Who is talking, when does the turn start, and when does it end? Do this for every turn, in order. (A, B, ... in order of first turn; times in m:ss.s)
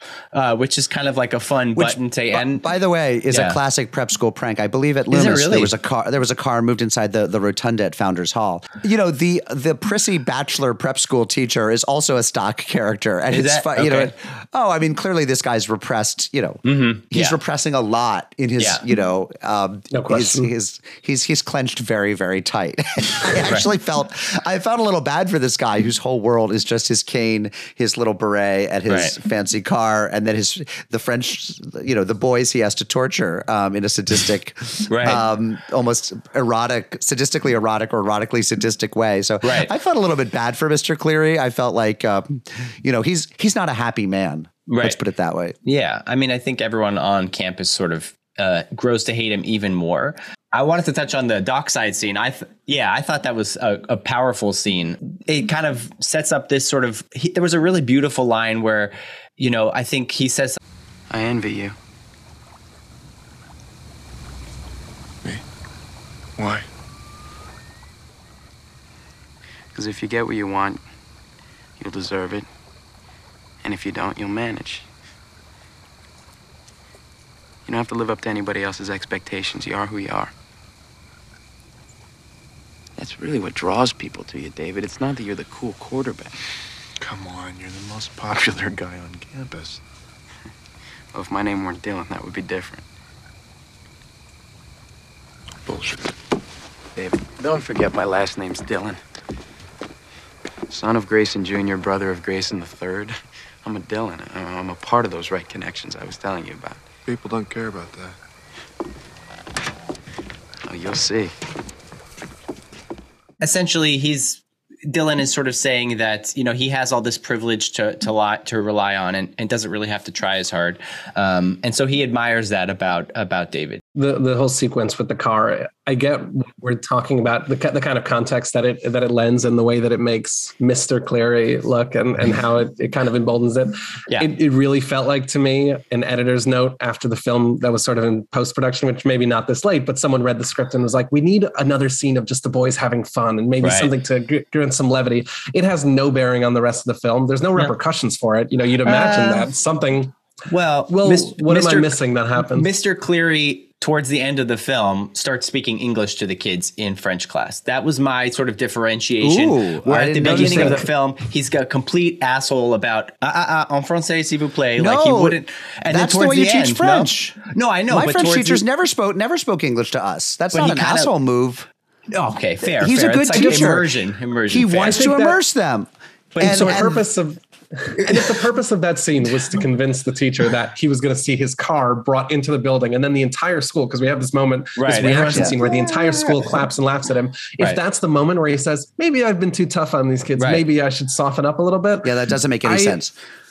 0:00.3-0:02.6 A
0:01.8-0:45.6 B
0:03.3-0:03.6 A
0:05.1-0:05.7 A
0:13.3-0:14.1 A
0:16.6-0:17.4 A
0:19.9-0:20.5 C
0:23.3-0:23.7 A
0:28.9-0:29.1 A
0:34.9-0:35.2 A
0:39.4-0:39.7 A
0:44.7-0:45.0 A
0:45.6-1:00.6 A
1:01.1-1:01.7 D
1:06.4-1:06.7 E
1:09.7-1:10.8 D
1:11.8-1:12.5 D
1:13.6-1:14.9 D
1:17.6-1:20.3 D
1:23.0-1:26.4 D
1:27.0-1:29.8 E
1:31.1-1:32.8 D
1:35.7-1:36.0 E
1:37.0-1:39.0 D
1:40.7-1:46.8 D
1:47.0-1:48.2 E
1:50.7-1:51.3 D
1:53.4-2:03.8 A
2:04.0-2:30.1 C
2:23.6-2:23.9 A
2:28.8-2:29.5 A
2:30.5-2:48.6 A
2:30.9-2:32.7 C
2:39.2-2:40.8 B
2:40.2-2:40.8 C
2:44.8-2:51.7 B
2:50.5-2:51.1 A
2:52.1-2:55.0 A
2:52.6-2:53.9 B
2:54.5-2:55.9 B
2:54.8-2:55.4 C
2:56.3-2:56.8 A
2:56.4-2:57.0 B
2:56.4-3:13.0 C
3:04.8-3:06.2 A
3:05.3-3:05.6 B
3:10.4-3:10.6 A
3:12.0-3:13.1 B